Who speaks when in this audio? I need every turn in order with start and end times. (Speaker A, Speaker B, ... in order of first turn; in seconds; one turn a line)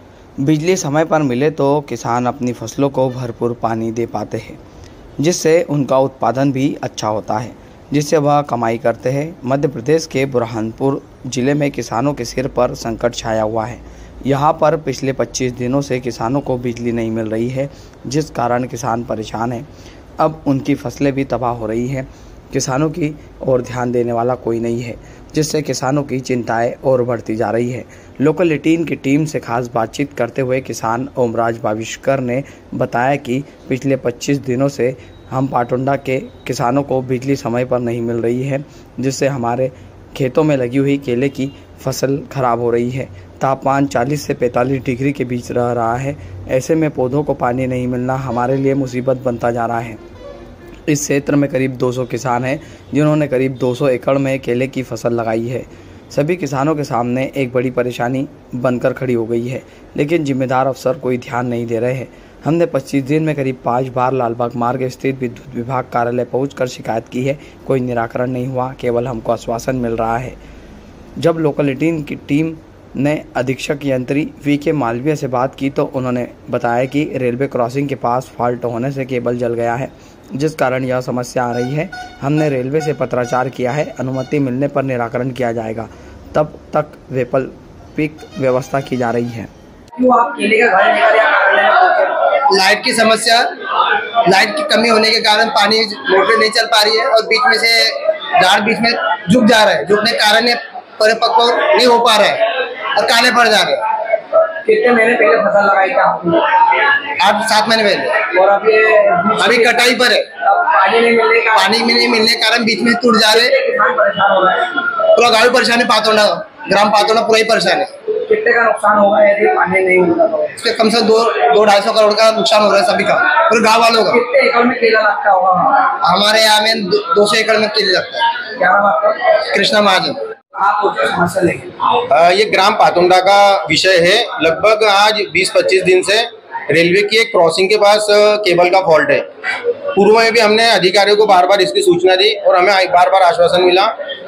Speaker A: 0.4-4.6
Speaker A: 5.2-19.6
Speaker A: 20.2-50.0
Speaker A: 50.9-70.4
Speaker A: 71.2-89.5
Speaker B: 90.0-92.3
Speaker C: 92.5-93.5
Speaker C: 94.2-103.8
Speaker B: 104.6-106.6
Speaker C: 107.2-108.2
Speaker B: 108.3-109.9
Speaker C: 109.4-110.3
Speaker B: 110.4-111.7
Speaker C: 111.5-113.5
Speaker B: 113.3-114.8
Speaker C: 115.1-117.9
Speaker B: 118.2-120.5
Speaker C: 120.5-124.2
Speaker B: 124.1-125.9
Speaker C: 126.0-128.3
Speaker B: 128.6-129.3
Speaker C: 129.4-130.2
Speaker B: 130.5-131.7
Speaker D: 132.1-139.2
Speaker D: 139.9-143.9